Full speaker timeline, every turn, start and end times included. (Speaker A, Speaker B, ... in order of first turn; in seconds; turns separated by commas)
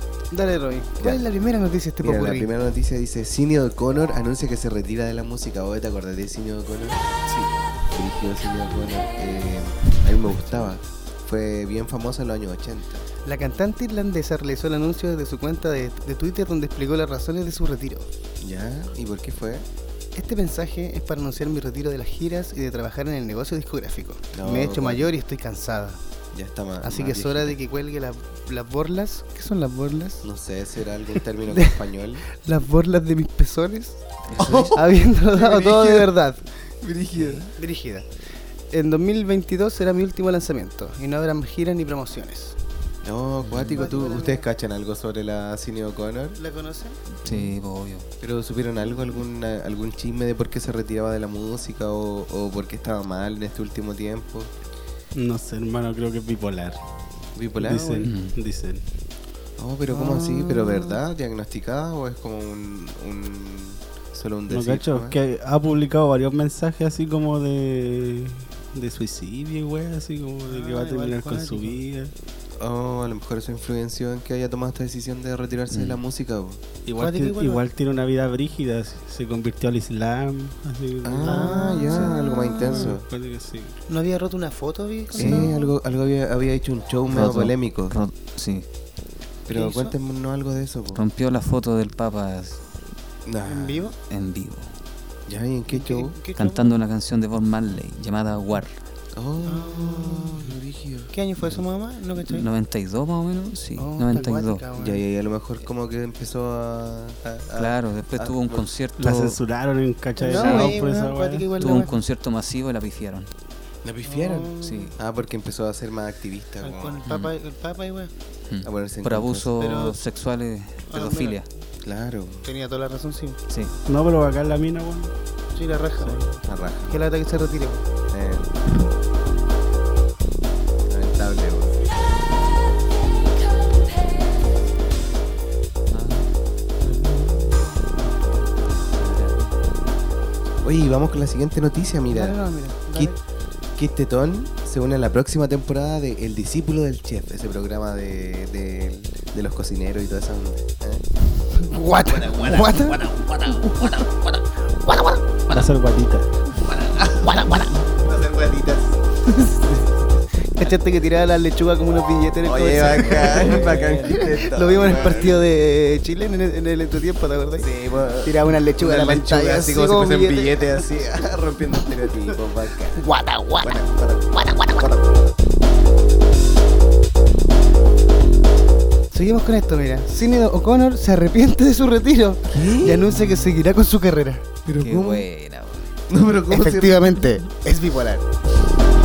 Speaker A: 0.3-2.5, Speaker B: 1.0-1.3, Speaker B: 2.0-13.1, Speaker A: 13.2-18.1, Speaker B: 18.4-19.7, Speaker A: 20.1-26.0, Speaker B: 24.3-25.1, Speaker B: 26.3-27.6, Speaker A: 26.8-30.2, Speaker B: 30.2-32.2, Speaker A: 32.4-36.4, Speaker C: 34.3-34.7, Speaker B: 34.4-34.8, Speaker B: 35.3-36.1, Speaker B: 36.8-37.5, Speaker A: 37.4-38.1, Speaker A: 38.7-42.6, Speaker B: 43.0-46.4, Speaker C: 43.4-43.8, Speaker A: 43.7-44.5, Speaker A: 46.4-47.0, Speaker C: 47.1-48.0, Speaker B: 47.3-47.5, Speaker B: 48.2-54.5, Speaker D: 55.1-56.8, Speaker B: 57.4-58.0, Speaker D: 57.6-58.8, Speaker A: 57.7-57.9, Speaker C: 58.0-58.4, Speaker B: 59.6-65.2, Speaker A: 59.9-61.0, Speaker D: 64.5-72.1, Speaker A: 70.5-71.8, Speaker B: 72.6-76.6, Speaker C: 75.7-76.0, Speaker D: 76.9-83.8, Speaker A: 77.0-77.6, Speaker B: 81.0-83.1, Speaker A: 81.2-82.9, Speaker A: 83.9-85.7, Speaker B: 85.2-88.0, Speaker C: 87.1-88.7, Speaker B: 89.5-91.0, Speaker A: 89.5-89.9, Speaker C: 90.9-92.7, Speaker B: 93.3-93.9, Speaker A: 93.5-94.0, Speaker C: 94.1-94.7, Speaker B: 95.3-96.2, Speaker A: 95.7-96.8, Speaker C: 96.4-98.8, Speaker B: 99.2-101.1, Speaker A: 99.5-100.5, Speaker A: 101.1-102.5, Speaker C: 102.3-104.6, Speaker A: 103.8-105.0, Speaker B: 104.8-108.7, Speaker C: 107.6-109.4, Speaker D: 109.0-111.8, Speaker A: 110.2-111.9, Speaker C: 110.3-110.8, Speaker C: 111.6-113.3, Speaker B: 113.8-117.0, Speaker A: 114.1-114.9, Speaker C: 114.6-114.9, Speaker A: 116.6-118.1, Speaker C: 117.1-117.3, Speaker C: 118.5-121.5, Speaker B: 118.6-119.5, Speaker A: 119.6-120.0, Speaker A: 120.9-121.4, Speaker B: 121.8-122.5, Speaker A: 122.4-123.4, Speaker D: 123.9-125.1, Speaker A: 125.5-126.3, Speaker D: 126.0-126.3, Speaker B: 126.4-127.0, Speaker A: 126.9-127.8, Speaker B: 128.1-128.5, Speaker B: 130.9-131.9, Speaker C: 135.9-136.3, Speaker C: 138.0-139.6, Speaker B: 140.6-142.4, Speaker A: 142.1-143.2, Speaker B: 143.8-151.0, Speaker A: 151.6-154.0, Speaker B: 152.1-154.3, Speaker D: 155.5-156.3, Speaker B: 156.6-158.9, Speaker A: 157.2-157.7, Speaker A: 159.3-167.7, Speaker B: 162.4-165.4, Speaker B: 167.6-173.1, Speaker A: 168.2-170.9, Speaker A: 173.0-173.7, Speaker B: 173.6-175.2, Speaker A: 179.1-184.4, Speaker B: 182.5-182.9, Speaker C: 183.0-183.6, Speaker B: 184.7-185.3, Speaker C: 184.8-185.9, Speaker B: 186.1-187.1, Speaker A: 186.5-188.3